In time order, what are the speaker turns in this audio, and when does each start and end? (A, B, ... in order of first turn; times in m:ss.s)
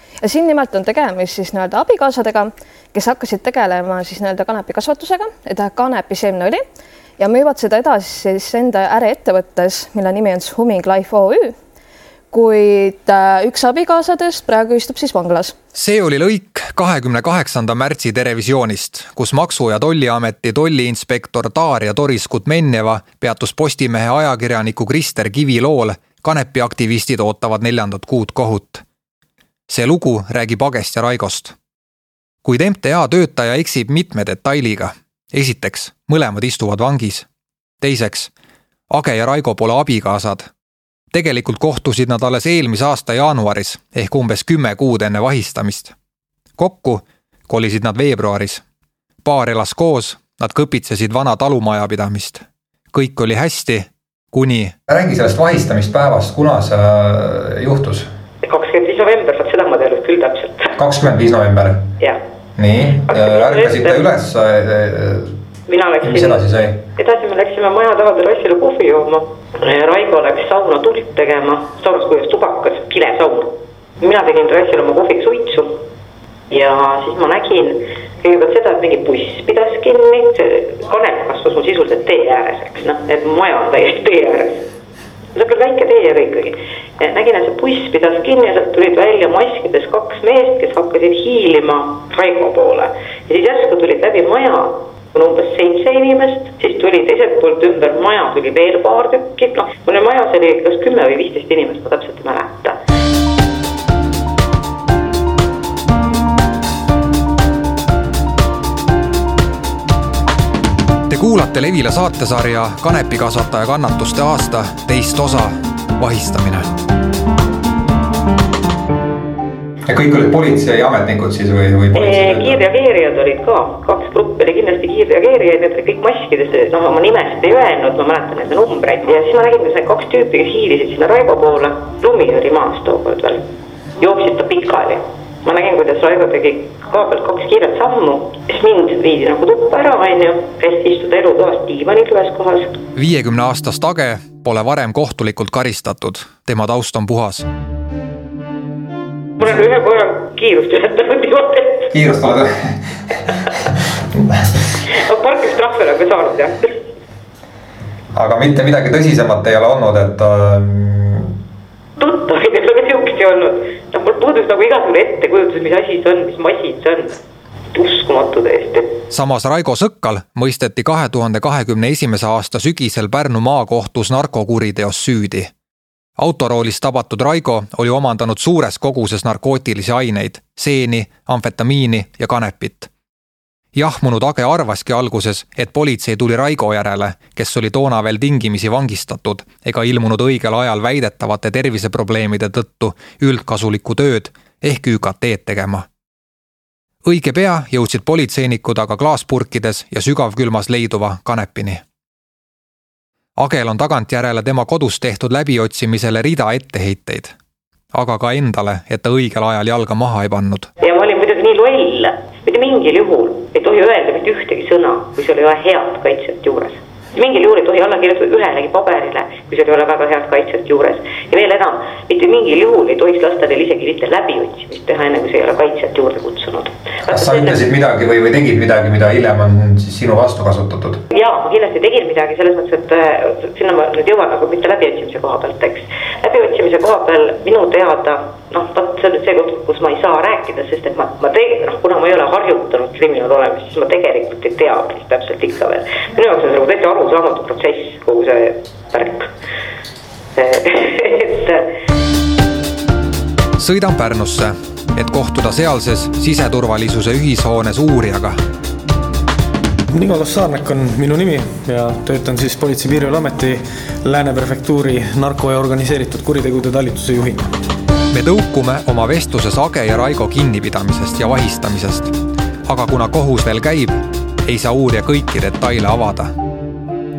0:00.2-0:06.6 A
0:07.2-0:11.6 A
0:12.3-0:15.5 A
0:15.7-0:28.8 B
0:29.7-0:31.6 B
0:32.4-0:37.3 B
0:37.8-0:38.3 B
0:38.9-0:40.5 B
0:41.1-0:45.9 B
0:46.6-0:48.6 B
0:49.2-0:58.1 B
0:58.4-1:00.8 C
1:00.8-1:01.9 B
1:02.6-1:05.4 B
1:03.0-1:04.0 C
1:05.7-1:06.4 C
1:06.0-1:06.8 B
1:07.0-1:15.8 C
1:16.5-1:24.6 C
1:25.3-1:42.8 C
1:51.1-1:56.7 B
1:59.8-2:02.6 B
2:01.9-2:13.4 C
2:14.0-2:22.8 C
2:22.9-2:27.5 B
2:29.4-2:31.9 C
2:31.9-2:33.6 B
2:34.1-2:34.5 B
2:34.9-2:36.7 C
2:38.1-2:41.3 B
2:42.0-2:47.2 C
2:47.7-2:49.0 C
2:49.1-2:55.5 B
2:56.2-3:02.9 B
3:03.7-3:15.8 B
3:17.0-3:21.8 B
3:23.4-3:27.3 B
3:27.9-3:30.7 B
3:30.8-3:47.6 C
3:47.1-3:51.0 B
3:51.1-4:09.3 C
4:10.4-4:11.7 C
4:13.6-4:18.4 B
4:19.9-4:27.5 D
4:28.1-4:36.4 B